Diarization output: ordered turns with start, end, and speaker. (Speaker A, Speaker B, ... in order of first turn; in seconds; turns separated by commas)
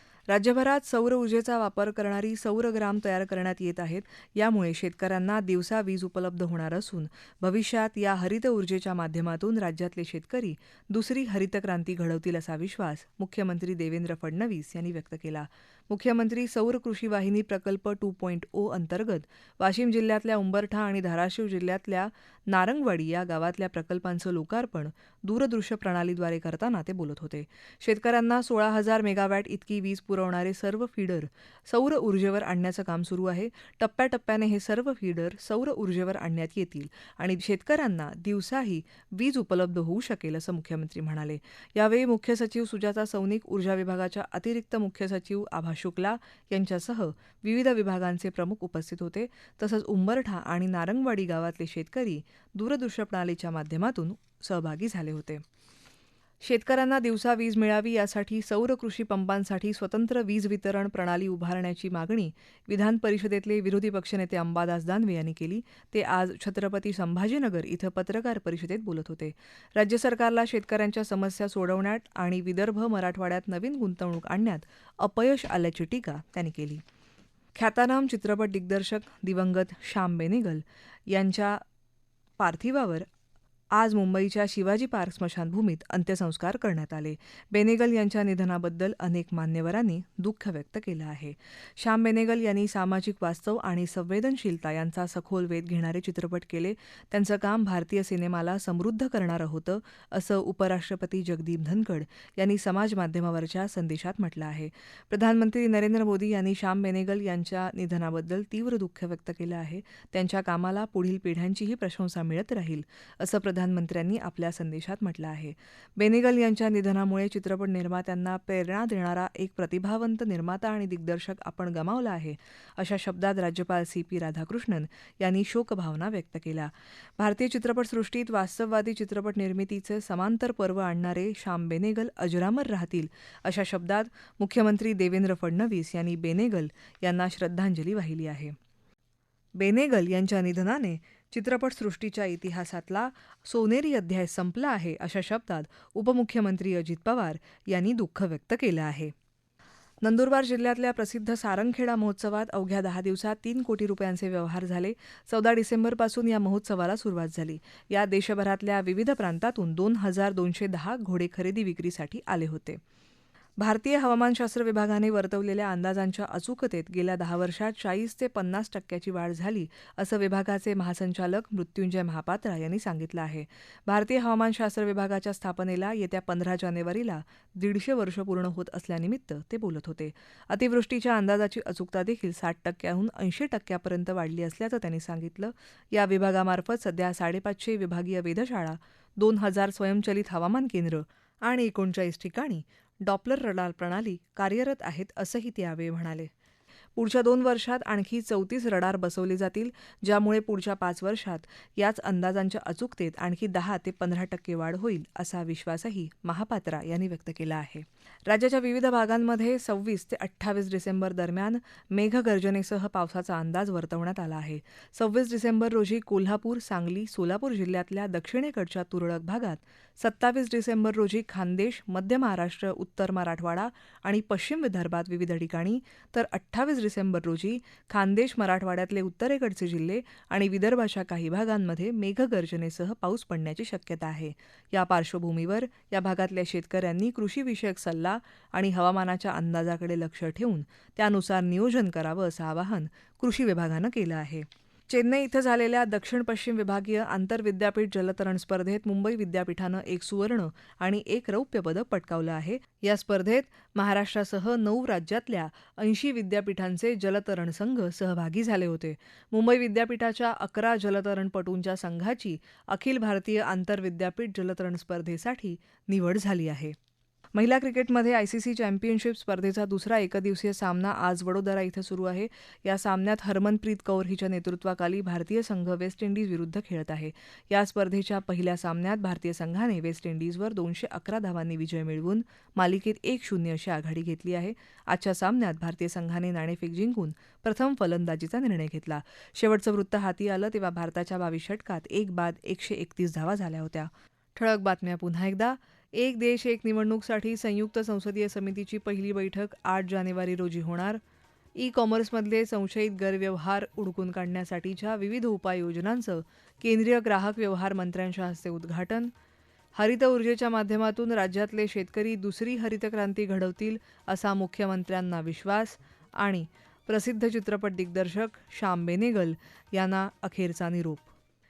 Speaker A: 0.3-55.4, Speaker A: 56.4-76.8, Speaker A: 77.5-81.6, Speaker A: 82.4-83.1, Speaker A: 83.7-138.5, Speaker A: 139.6-149.1, Speaker A: 150.0-162.8, Speaker A: 163.6-196.3, Speaker A: 196.9-266.7, Speaker A: 267.3-301.0, Speaker A: 301.5-309.1, Speaker A: 309.7-321.1